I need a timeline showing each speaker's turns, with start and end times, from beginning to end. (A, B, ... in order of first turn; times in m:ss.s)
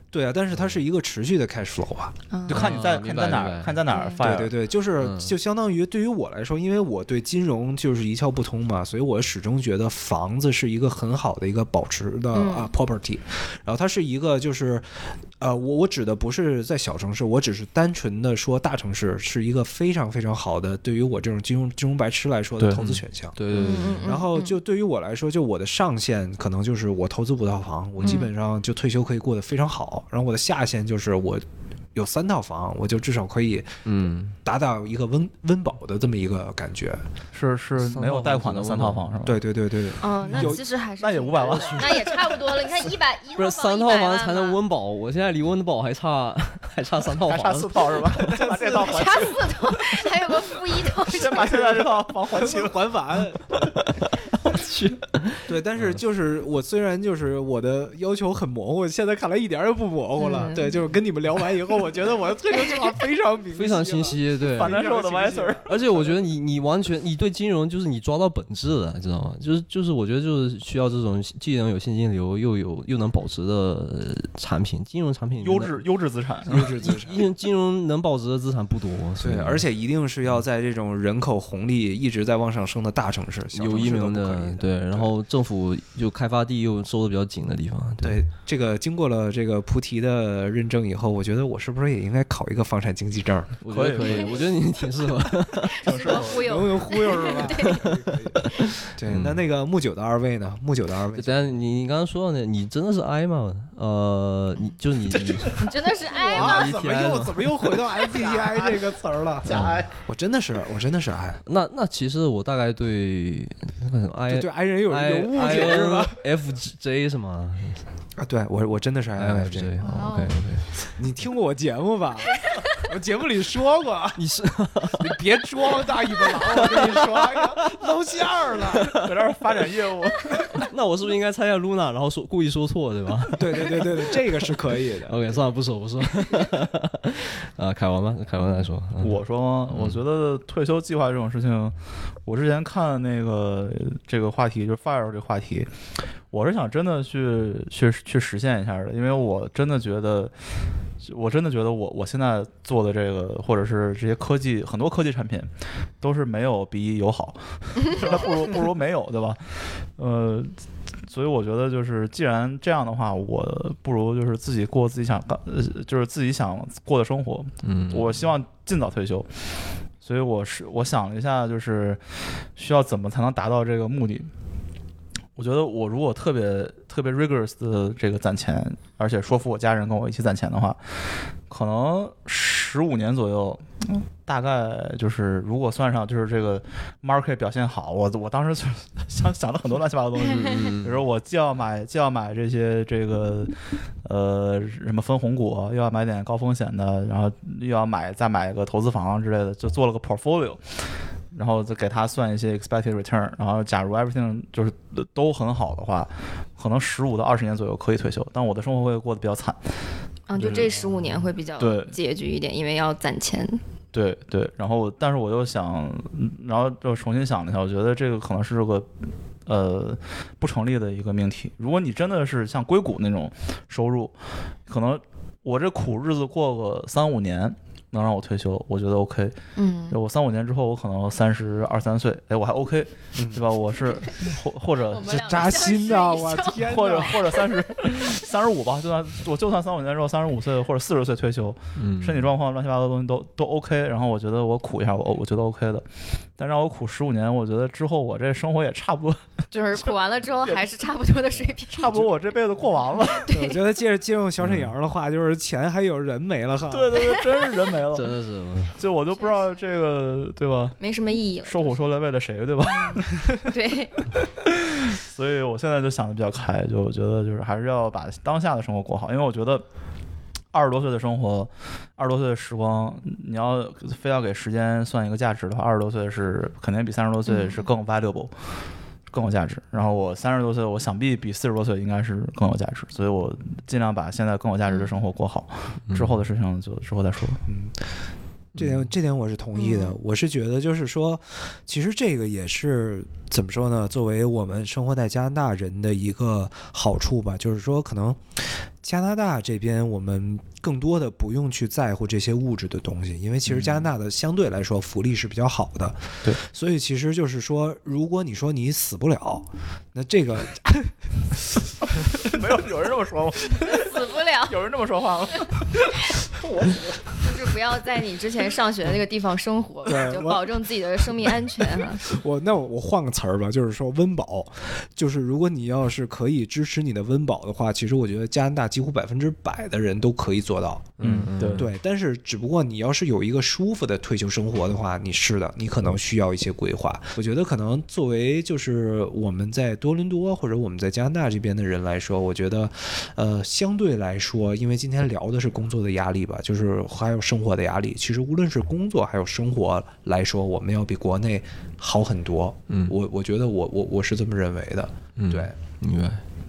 0:00.1-0:02.2 A
0:00.5-0:00.8 B
0:02.3-0:02.8 C
0:02.5-0:04.5 D
0:02.5-0:03.8 B
0:03.9-0:04.2 C
0:04.2-0:33.8 A
0:05.0-0:05.3 B
0:12.3-0:12.7 C
0:22.7-0:24.1 B
0:23.5-0:24.6 C
0:28.0-0:28.3 C
0:33.8-0:34.4 B
0:34.4-0:37.0 A
0:37.3-0:39.4 D
0:37.8-0:39.0 B
0:39.2-0:40.6 A
0:40.0-0:44.6 C
0:41.0-0:42.3 D
0:41.4-0:42.0 B
0:43.4-0:48.4 B
0:47.2-0:49.5 D
0:48.2-0:49.3 A
0:48.6-0:51.6 C
0:51.0-0:52.8 D
0:51.2-0:53.8 A
0:54.4-0:56.0 B
0:55.4-1:06.1 A
1:00.2-1:00.8 C
1:03.5-1:04.8 B
1:04.5-1:05.7 D
1:05.6-1:15.8 B
1:15.4-1:16.6 D
1:16.4-1:17.2 A
1:16.5-1:19.6 B
1:19.2-1:25.1 A
1:23.5-1:28.2 B
1:28.0-1:33.6 A
1:33.6-1:35.8 B
1:33.7-1:34.4 D
1:34.1-1:34.4 C
1:35.7-1:37.9 C
1:35.8-1:36.5 D
1:36.0-1:41.4 A
1:39.0-1:39.4 B
1:41.1-1:45.6 B
1:45.6-1:46.8 C
1:46.0-1:51.4 A
1:46.3-1:47.8 B
1:48.1-1:48.8 D
1:49.4-1:49.9 D
1:49.5-1:49.7 B
1:51.4-1:57.8 B
1:54.3-1:56.2 A
1:58.2-1:59.8 A
1:59.2-2:00.7 B
1:59.8-2:00.4 C
2:01.0-2:04.2 A
2:04.2-2:05.2 B
2:04.9-2:09.0 A
2:06.6-2:07.3 B
2:08.8-2:09.1 B
2:08.9-2:10.7 D
2:10.5-2:19.2 B
2:13.3-2:15.2 A
2:19.0-2:25.7 D
2:19.7-2:20.0 B
2:26.3-2:30.3 D
2:31.0-2:35.5 D
2:36.0-2:40.5 D
2:41.0-2:49.3 D
2:47.6-2:48.2 B
2:50.0-2:52.0 D
2:52.6-2:54.3 D
2:55.4-3:29.7 D
3:10.3-3:11.0 B
3:30.3-3:33.6 C
3:30.3-3:30.7 D
3:31.6-3:31.9 D
3:33.9-3:38.9 D
3:39.4-3:44.1 D
3:44.7-3:49.4 D
3:49.6-3:50.0 C
3:49.9-3:55.6 D
3:53.2-3:53.5 A
3:54.9-3:57.5 C
3:55.1-3:57.3 A
3:56.5-4:05.8 D
4:01.8-4:02.3 B
4:06.4-4:09.2 D
4:09.5-4:12.0 C
4:11.7-4:13.3 D
4:13.3-4:13.6 C
4:13.3-4:17.0 A
4:14.4-4:14.7 B
4:16.7-4:18.1 D
4:17.9-4:18.8 B
4:18.8-4:20.8 D
4:20.8-4:21.7 C
4:21.4-4:23.5 D
4:22.7-4:23.9 C
4:24.4-4:29.6 D
4:30.5-4:38.3 D
4:37.3-4:37.6 C
4:39.1-4:47.4 D
4:47.5-4:47.8 A
4:48.5-5:11.0 A
4:49.6-4:49.9 C
5:03.4-5:03.9 D
5:12.0-5:15.9 D
5:13.5-5:14.6 C
5:17.2-5:22.0 C
5:19.8-5:20.7 A
5:22.0-5:55.5 A
5:31.0-5:31.7 B
5:31.0-5:31.7 D
5:52.7-5:52.9 B
5:55.2-5:56.2 B